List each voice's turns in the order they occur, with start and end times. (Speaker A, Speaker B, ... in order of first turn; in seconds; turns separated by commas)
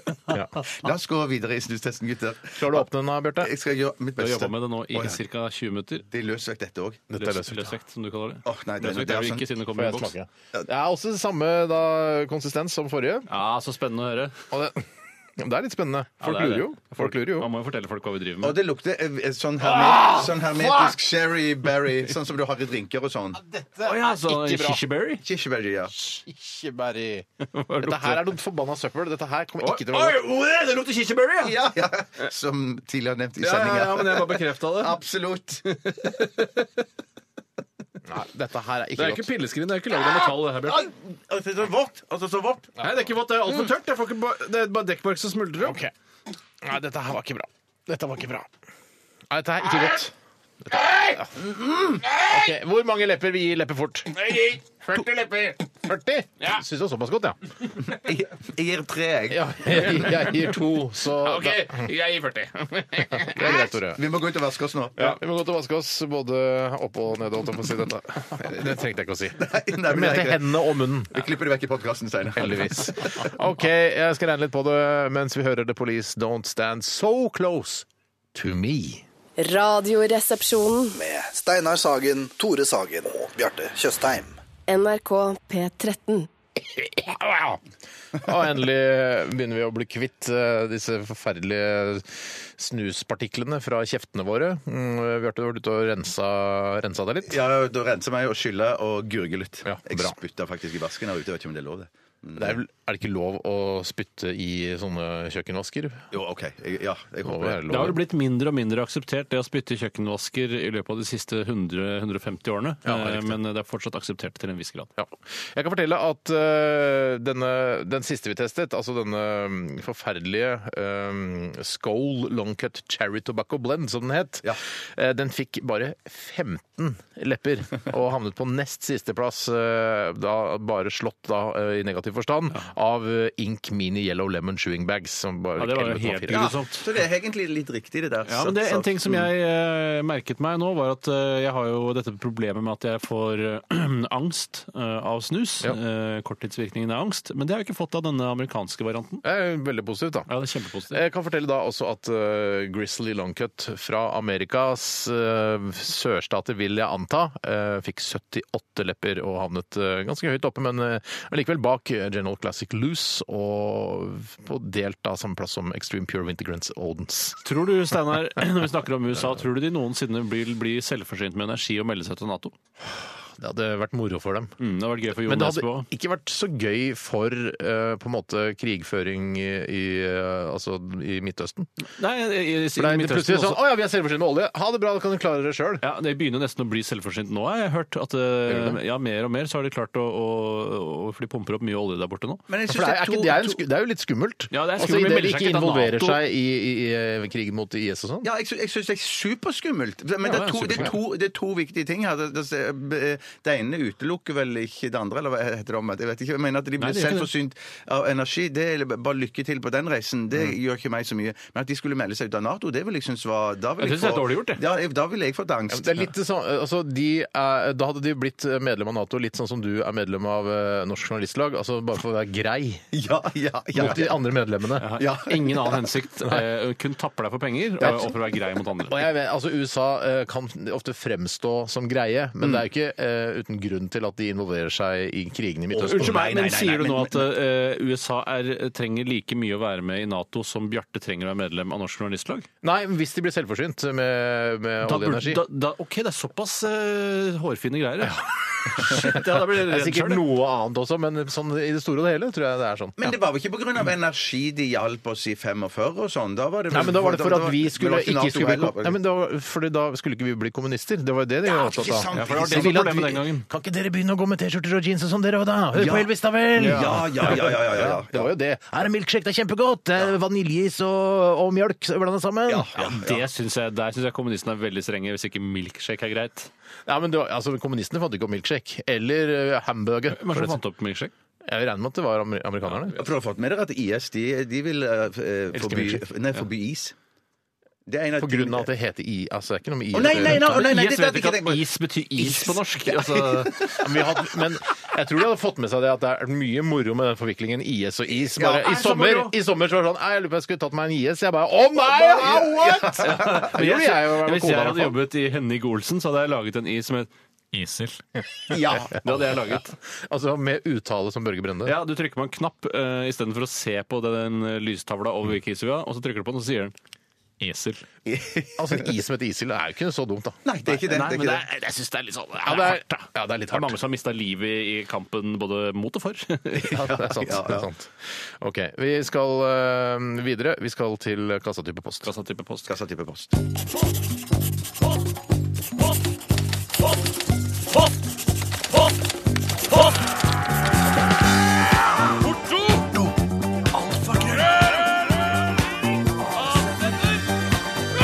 Speaker A: 0.3-0.6, Speaker B: 0.6-2.9, Speaker A: 2.5-3.5, Speaker B: 3.4-5.2, Speaker C: 4.2-6.0, Speaker B: 6.1-7.0, Speaker A: 7.1-7.7, Speaker C: 7.2-10.1, Speaker B: 8.4-9.4, Speaker A: 9.7-13.3, Speaker C: 13.3-14.4, Speaker A: 14.5-17.5, Speaker C: 16.2-18.6, Speaker B: 18.4-23.4, Speaker A: 19.6-21.0, Speaker A: 23.4-24.8, Speaker C: 23.8-25.2, Speaker B: 25.2-25.9, Speaker A: 25.9-27.2, Speaker C: 27.4-28.3, Speaker A: 27.8-30.2, Speaker C: 29.6-31.6, Speaker B: 31.4-35.7, Speaker C: 33.4-35.0, Speaker C: 35.6-36.7, Speaker A: 38.0-39.3, Speaker C: 39.0-40.9, Speaker B: 40.0-42.8, Speaker C: 42.8-45.8, Speaker A: 45.6-45.9, Speaker A: 46.6-48.5, Speaker A: 49.3-50.1, Speaker A: 50.6-51.4, Speaker B: 51.4-52.1, Speaker A: 52.1-57.4, Speaker B: 57.8-60.1, Speaker A: 59.3-61.9, Speaker C: 59.9-60.4, Speaker C: 61.0-63.4, Speaker A: 62.9-64.0, Speaker B: 63.4-65.2, Speaker A: 65.0-71.3, Speaker B: 69.4-73.3, Speaker A: 72.3-79.0, Speaker D: 79.4-81.0, Speaker E: 80.9-84.3, Speaker D: 84.7-86.3, Speaker A: 86.6-87.6, Speaker A: 88.1-97.4, Speaker B: 97.3-102.6, Speaker A: 99.7-100.2, Speaker A: 102.4-106.0, Speaker B: 106.1-107.9, Speaker A: 107.2-108.0, Speaker C: 107.7-114.9, Speaker A: 112.8-113.4, Speaker A: 115.0-136.5, Speaker C: 135.6-136.9, Speaker B: 136.3-139.3, Speaker C: 138.3-149.2, Speaker A: 149.2-150.3, Speaker C: 150.3-151.0, Speaker A: 150.9-167.4, Speaker C: 167.4-172.5, Speaker A: 172.8-174.6, Speaker C: 174.6-175.9, Speaker A: 175.1-181.7, Speaker C: 182.0-183.6, Speaker A: 182.7-185.8, Speaker C: 185.8-192.4, Speaker A: 188.5-188.8, Speaker B: 192.5-193.6, Speaker A: 192.7-198.3, Speaker C: 194.5-196.2, Speaker B: 198.2-216.0, Speaker C: 200.2-201.0, Speaker C: 206.8-207.3, Speaker C: 213.8-214.6, Speaker A: 215.7-222.9, Speaker B: 222.9-224.1, Speaker A: 223.7-224.9, Speaker C: 224.8-229.0, Speaker B: 225.0-225.9, Speaker A: 227.8-228.1, Speaker A: 228.9-236.2, Speaker B: 235.7-237.3, Speaker C: 235.7-242.5, Speaker A: 242.6-245.4, Speaker C: 244.8-248.2, Speaker A: 248.0-253.1, Speaker C: 248.7-250.2, Speaker B: 253.0-259.0, Speaker A: 256.7-273.0, Speaker B: 261.4-262.9, Speaker C: 262.1-263.4, Speaker B: 265.7-268.3, Speaker C: 266.6-267.0, Speaker B: 272.5-273.2, Speaker C: 272.8-276.5, Speaker A: 276.9-280.6, Speaker C: 280.1-281.1, Speaker A: 281.4-283.0, Speaker B: 282.9-286.9, Speaker A: 285.5-286.0, Speaker B: 287.9-288.7, Speaker A: 288.2-290.6, Speaker B: 289.9-294.3, Speaker C: 290.1-293.8, Speaker A: 293.8-305.0, Speaker B: 298.4-298.7, Speaker C: 298.6-299.3, Speaker B: 301.8-303.5, Speaker C: 303.0-309.8, Speaker B: 308.5-308.9, Speaker A: 308.5-311.8, Speaker C: 311.6-316.7, Speaker C: 317.4-317.8, Speaker B: 318.1-318.9, Speaker A: 318.6-320.4, Speaker B: 320.4-321.4, Speaker C: 320.7-326.8, Speaker A: 322.4-323.8, Speaker B: 326.6-327.7, Speaker A: 326.7-332.1, Speaker C: 332.0-332.7, Speaker B: 332.7-333.4, Speaker C: 342.2-343.1, Speaker C: 343.7-345.0, Speaker C: 346.3-347.2